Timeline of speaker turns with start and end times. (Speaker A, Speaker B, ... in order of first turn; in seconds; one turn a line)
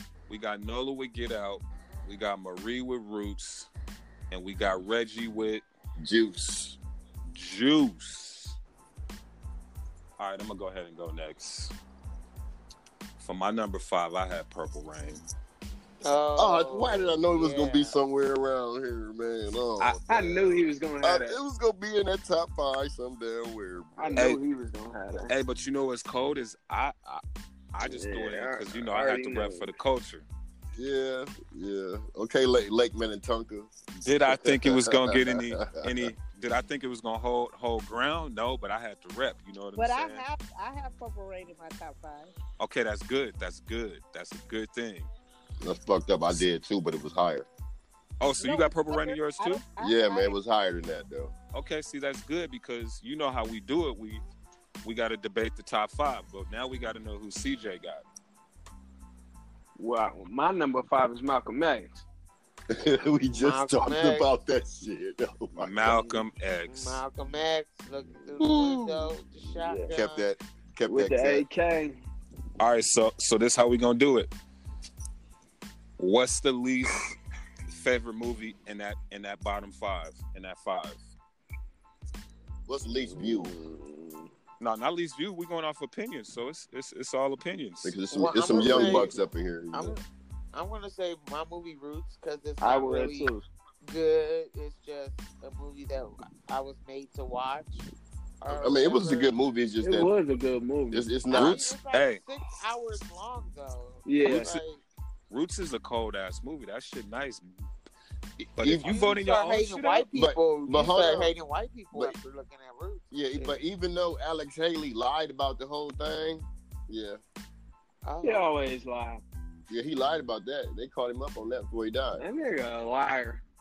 Speaker A: 0.3-3.7
Speaker A: 4.3-5.6
Speaker B: 6.0-6.8
Speaker A: 7.3-8.6
Speaker A: 10.2-11.7
Speaker A: 13.2-15.2
Speaker C: 16.0-17.9
Speaker B: 16.4-24.2
Speaker A: 19.8-20.6
Speaker D: 20.1-21.4
Speaker D: 24.0-25.3
Speaker A: 24.1-24.4
Speaker A: 25.3-30.3
Speaker D: 27.8-29.7
Speaker B: 30.7-33.7
Speaker A: 34.0-40.2
Speaker B: 34.3-36.1
Speaker E: 39.8-42.3
Speaker A: 42.6-45.1
Speaker B: 45.6-47.5
Speaker A: 48.2-49.6
Speaker E: 48.4-50.4
Speaker B: 49.8-51.3
Speaker A: 51.5-54.2
Speaker A: 54.8-58.0
Speaker D: 59.8-62.0
Speaker B: 62.7-66.0
Speaker C: 63.3-64.3
Speaker A: 65.6-67.0
Speaker C: 65.8-70.3
Speaker B: 68.4-69.1
Speaker D: 69.3-70.0
Speaker B: 69.9-71.4
Speaker D: 70.9-72.0
Speaker A: 72.6-74.3
Speaker A: 76.0-77.2
Speaker A: 77.7-81.1
Speaker B: 82.7-83.5
Speaker D: 83.1-84.3
Speaker A: 84.6-88.0
Speaker B: 87.8-90.0
Speaker C: 88.1-89.2
Speaker A: 88.5-89.1
Speaker C: 89.7-90.0
Speaker C: 90.5-93.3
Speaker D: 92.6-93.5
Speaker C: 93.8-97.8
Speaker C: 98.4-99.3
Speaker B: 98.5-100.1
Speaker D: 99.8-101.2
Speaker B: 100.9-101.6
Speaker C: 101.3-104.8
Speaker A: 101.3-102.3
Speaker D: 104.0-104.6
Speaker A: 105.3-107.4
Speaker B: 108.4-108.9
Speaker A: 108.6-110.1
Speaker C: 108.8-113.5
Speaker B: 110.1-111.3
Speaker B: 111.9-112.2
Speaker B: 113.1-117.2
Speaker C: 118.0-118.5
Speaker D: 118.2-119.2
Speaker B: 119.7-122.2
Speaker D: 122.2-123.4